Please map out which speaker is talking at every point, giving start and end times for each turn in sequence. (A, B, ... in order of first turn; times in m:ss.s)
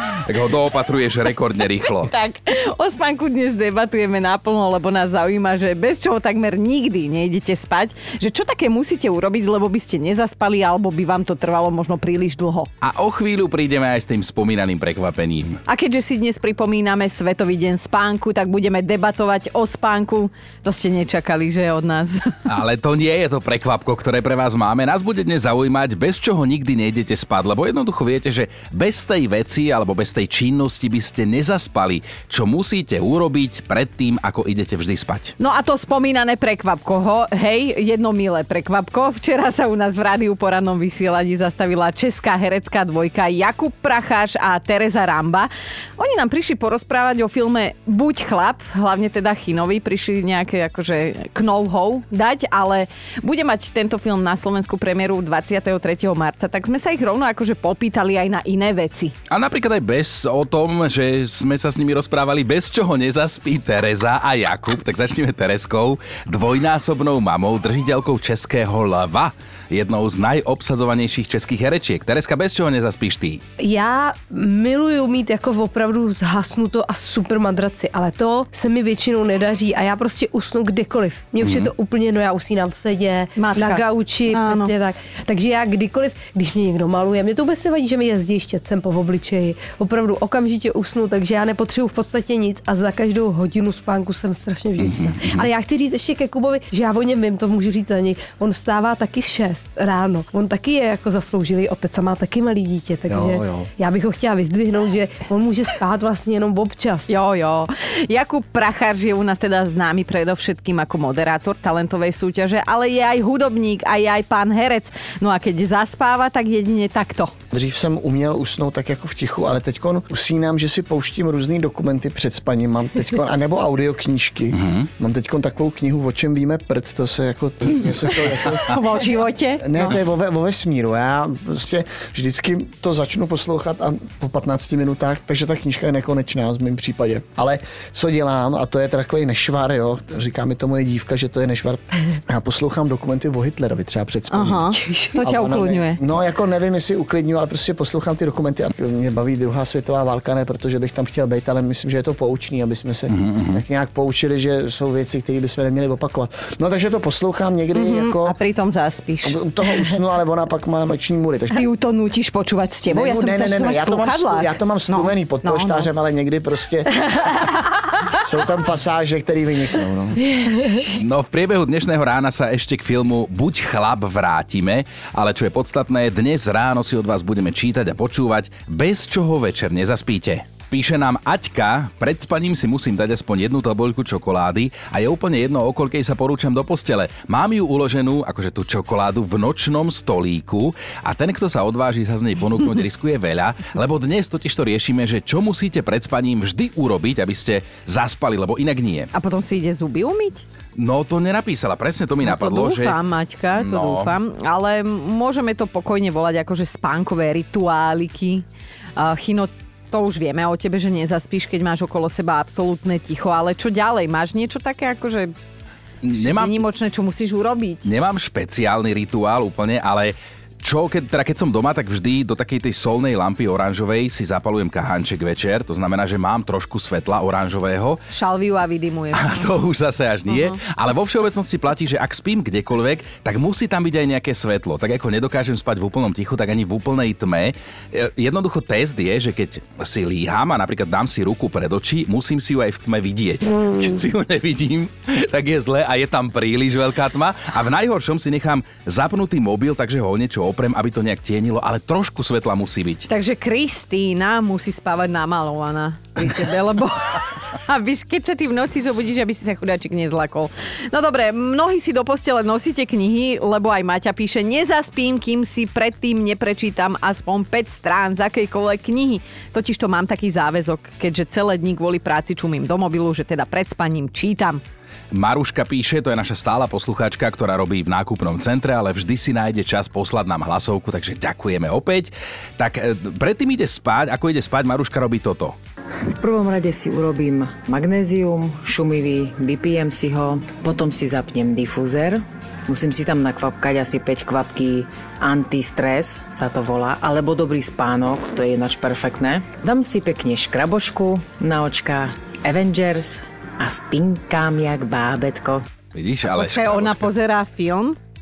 0:00.2-0:02.1 A
0:02.0-0:12.7 B
0:12.8-0:15.6 A
0:15.7-0:22.3 B
0:22.5-0:35.3 A
0:35.4-0:59.1 B
0:59.3-1:13.4 A
1:13.6-1:47.1 C
1:21.4-1:21.7 A
1:23.4-1:24.7 B
1:34.8-1:35.5 A
1:43.1-1:43.7 D
1:47.1-1:57.3 B
1:57.5-2:08.6 D
2:04.6-2:04.9 A
2:08.6-2:09.9 B
2:09.6-2:38.3 D
2:24.3-2:26.0 B
2:24.8-2:25.1 C
2:33.1-2:33.6 A
2:37.7-2:39.4 B
2:39.2-2:41.6 D
2:41.5-2:45.9 B
2:42.9-2:47.0 D
2:48.2-2:50.2 D
2:50.9-3:19.1 A
3:19.1-3:20.4 B
3:20.8-3:23.0 A
3:22.2-3:28.4 B
3:23.5-3:24.2 A
3:29.0-3:35.3 B
3:36.0-3:36.6 A
3:36.1-3:37.9 B
3:37.8-3:48.0 A
3:48.1-3:49.5 B
3:49.1-4:13.1 A
3:50.3-3:50.6 B
4:13.1-4:34.6 B
4:35.1-4:45.6 A
4:46.2-5:05.6 E
5:05.9-5:07.1 A
5:06.2-5:08.0 B